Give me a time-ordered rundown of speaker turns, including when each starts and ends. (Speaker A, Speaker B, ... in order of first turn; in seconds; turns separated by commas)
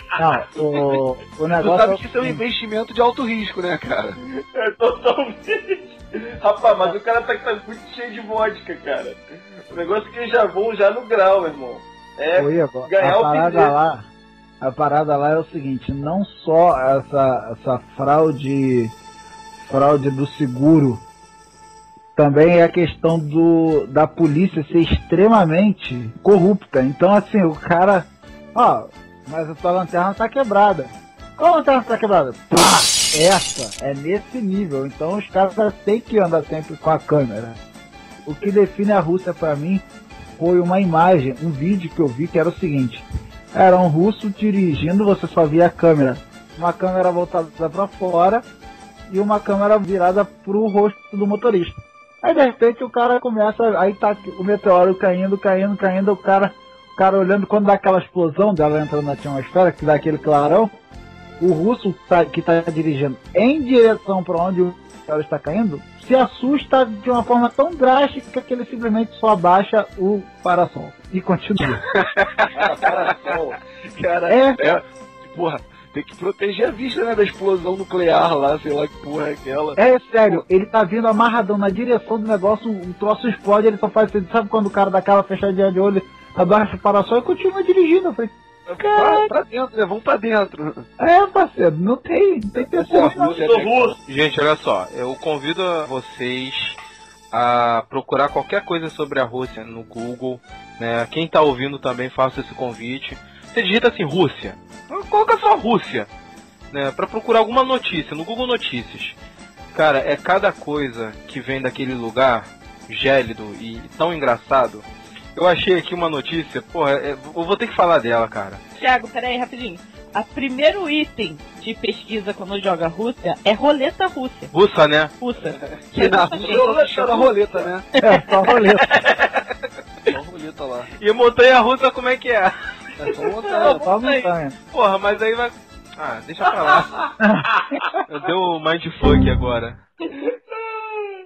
Speaker A: 0.2-2.4, Speaker B: 1.6-4.2, Speaker C: 4.2-9.2, Speaker C: 9.7-13.7, Speaker A: 12.3-14.1, Speaker A: 14.6-18.9, Speaker A: 19.6-21.0, Speaker A: 22.1-37.6, Speaker A: 38.2-39.9, Speaker A: 40.4-48.4, Speaker A: 49.1-60.7, Speaker A: 61.4-71.8, Speaker B: 71.8-73.4, Speaker C: 72.5-73.6, Speaker B: 73.9-80.4, Speaker A: 74.3-74.6, Speaker A: 79.8-89.3, Speaker B: 88.7-90.9, Speaker A: 91.0-93.5, Speaker B: 92.5-94.0, Speaker C: 92.9-94.0, Speaker D: 94.0-96.8, Speaker D: 97.3-106.1, Speaker D: 106.7-109.2, Speaker D: 109.7-118.6, Speaker E: 118.7-124.5, Speaker D: 124.5-125.2, Speaker E: 125.2-127.2, Speaker B: 125.9-127.9, Speaker A: 128.0-128.9, Speaker D: 128.9-129.5, Speaker B: 130.1-130.9, Speaker D: 131.0-132.5, Speaker B: 133.0-133.8, Speaker E: 133.4-134.3, Speaker A: 133.6-134.5, Speaker D: 134.7-137.0, Speaker A: 137.2-137.5, Speaker D: 138.1-139.8, Speaker C: 140.3-141.2